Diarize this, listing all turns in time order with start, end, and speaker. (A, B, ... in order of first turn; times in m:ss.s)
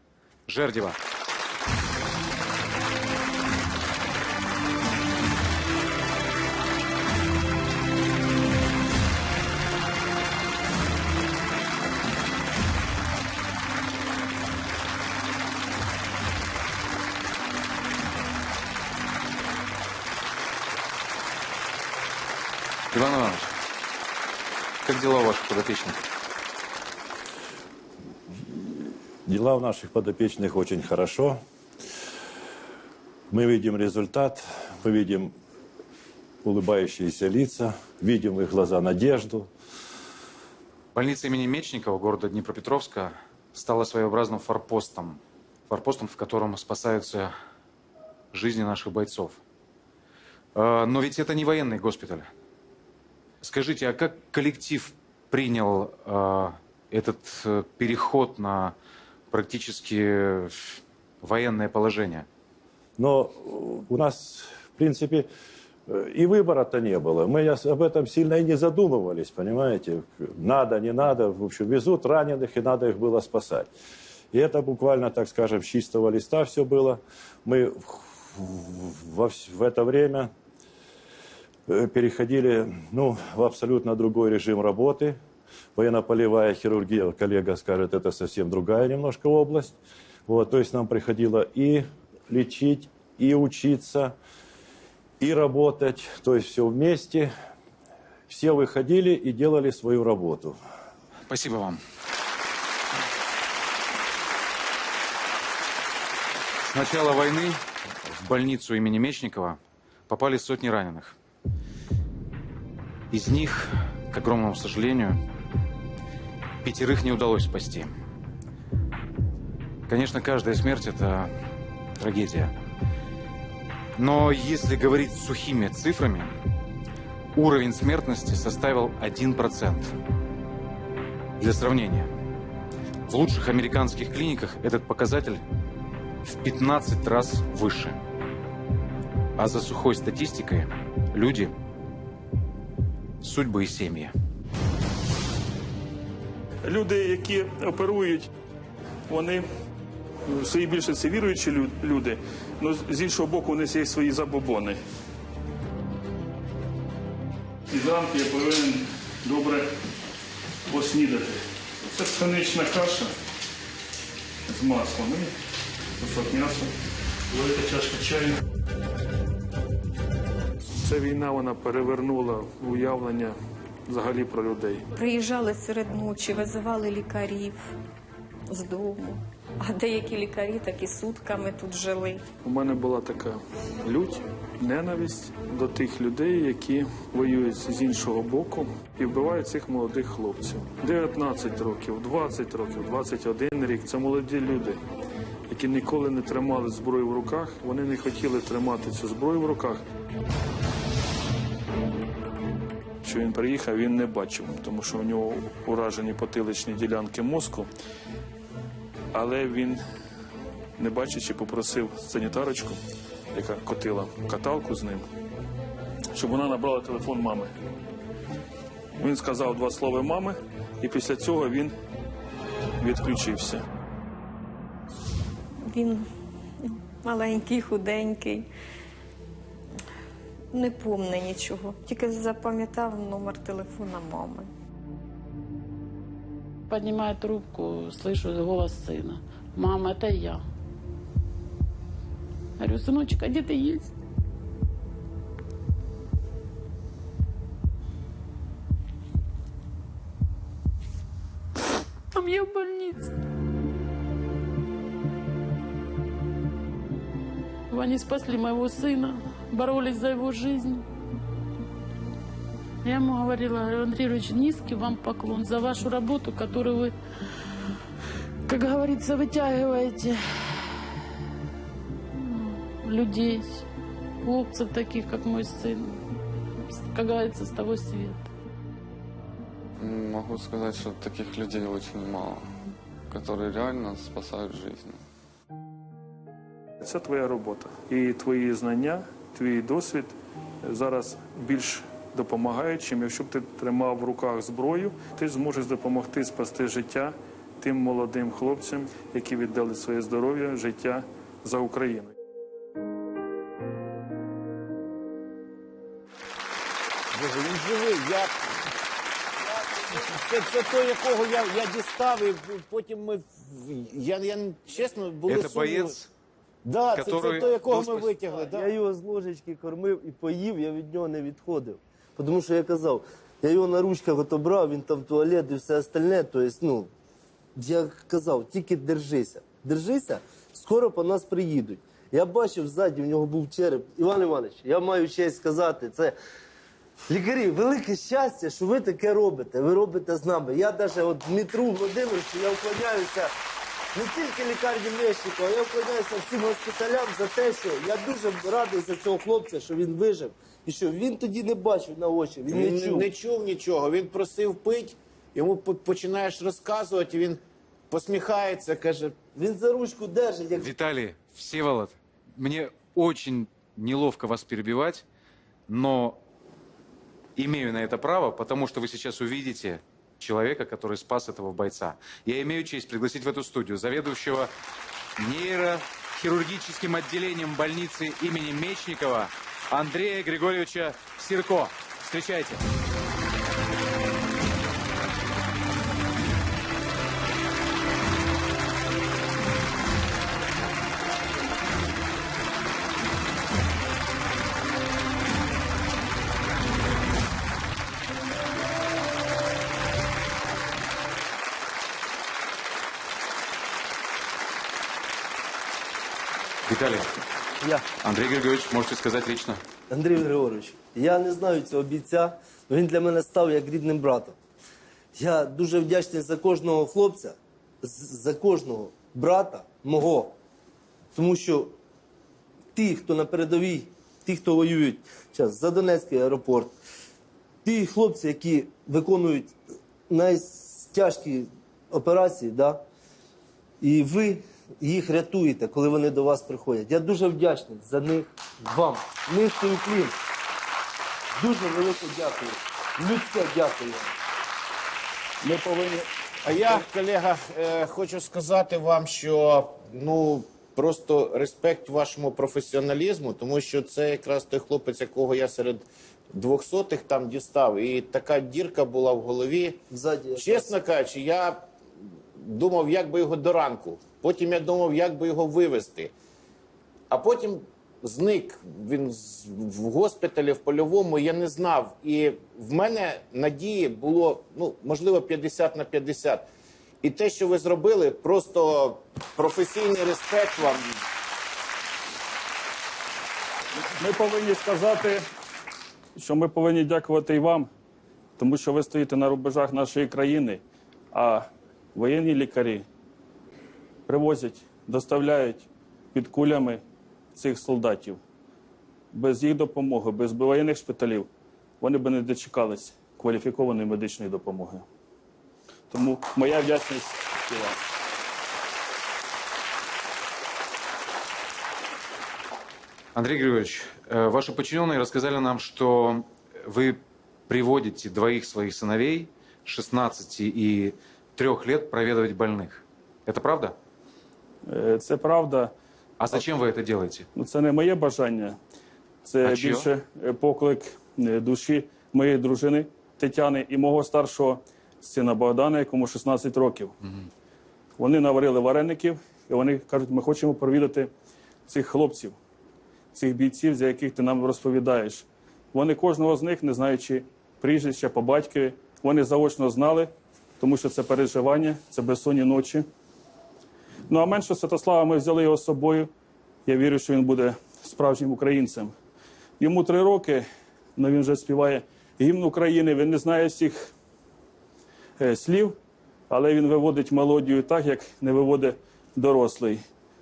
0:00.5-0:01.0 A
0:22.9-0:23.5 A
0:24.8-0:26.0 A
0:28.5-0:31.4 B
0:33.3-0:35.3 B
0:36.4-0:39.5 B
0:40.9-0:47.3 A
0:48.3-0:49.4 A
0:50.5-0:52.3 A
0:53.4-0:58.7 A
0:59.3-1:02.3 A
1:03.0-1:05.3 B
1:05.9-1:13.7 B
1:14.3-1:20.3 B
1:21.7-1:25.2 B
1:25.8-1:34.1 B
1:35.2-1:37.3 B
1:38.3-1:40.6 B
1:41.3-1:41.8 A
1:46.6-1:49.6 A
1:50.1-1:51.1 A
1:53.1-1:55.2 A
1:56.6-1:57.9 A
1:59.9-2:01.3 A
2:02.0-2:02.5 A
2:04.0-2:06.3 A
2:07.4-2:09.9 A
2:11.4-2:12.1 A
2:13.1-2:15.4 A
2:16.2-2:18.0 A
2:19.4-2:21.5 A
2:23.2-2:24.1 A
2:26.6-2:28.3 C
2:29.1-2:29.4 C
2:30.2-2:34.8 C
2:37.7-2:39.7 C
2:40.7-2:43.1 C
2:44.5-2:45.3 C
2:46.0-2:46.7 C
2:47.3-2:48.4 C
2:50.8-2:53.4 C
2:53.9-2:54.8 C
2:55.0-2:57.6 D
2:58.5-3:02.2 D
3:02.4-3:14.8 C
3:15.5-3:19.8 C
3:23.0-3:27.7 C
3:29.1-3:29.8 C
3:30.8-3:32.8 C
3:33.3-3:35.1 C
3:36.1-3:37.5 C
3:39.0-3:41.7 C
3:42.8-3:43.6 C
3:45.7-3:46.0 D
3:47.0-3:48.4 D
3:50.5-3:54.5 D
3:56.7-4:00.4 E
4:02.6-4:03.9 E
4:12.1-4:13.1 E
4:17.7-4:20.8 E
4:22.8-4:26.9 E
4:28.5-4:30.8 E
4:32.2-4:33.6 E
4:34.2-4:36.0 E
4:36.7-4:38.2 E
4:39.8-4:42.5 F
4:43.1-4:45.0 F
4:46.8-5:02.1 C
5:07.1-5:08.5 G
5:09.4-5:15.9 G
5:15.3-5:16.1 A
5:16.6-5:18.7 G
5:16.9-5:18.1 A
5:17.4-5:17.8 H
5:18.4-5:26.9 H
5:27.6-5:36.1 H
5:37.1-5:43.3 H
5:43.9-5:53.1 H
5:52.5-5:59.2 G
5:59.3-6:00.7 H
6:00.5-6:05.0 A
6:05.7-6:06.2 A
6:07.4-6:14.5 A
6:15.2-6:22.6 A
6:46.6-6:47.1 A
6:48.0-6:49.6 A
6:49.9-6:54.4 H
6:55.2-7:00.3 H
7:01.1-7:01.7 H
7:02.7-7:06.8 H
7:07.6-7:09.5 H
7:10.1-7:12.8 H
7:13.8-7:20.1 H
7:21.4-7:24.1 H
7:25.4-7:26.0 C
7:26.4-7:39.8 G
7:39.9-7:40.8 H
7:40.4-7:41.7 G
7:42.4-7:46.1 G
7:47.1-7:56.4 G
7:57.0-8:01.1 G
8:04.0-8:05.2 C
8:06.2-8:07.7 C
8:08.4-8:12.8 C
8:14.1-8:16.8 C
8:17.3-8:18.2 C
8:19.1-8:21.3 C
8:21.8-8:24.8 C
8:25.9-8:27.8 C
8:33.1-8:43.8 A
8:44.7-8:45.7 C
8:46.2-8:47.3 A
8:47.3-8:48.6 C
8:49.2-8:57.0 C
8:49.4-8:49.9 A
8:58.0-9:01.1 C
9:01.7-9:02.4 C
9:03.1-9:12.9 C
9:14.1-9:16.1 C
9:16.6-9:18.9 C
9:19.6-9:20.4 C
9:21.0-9:23.9 C
9:25.2-9:25.8 C
9:26.3-9:29.8 C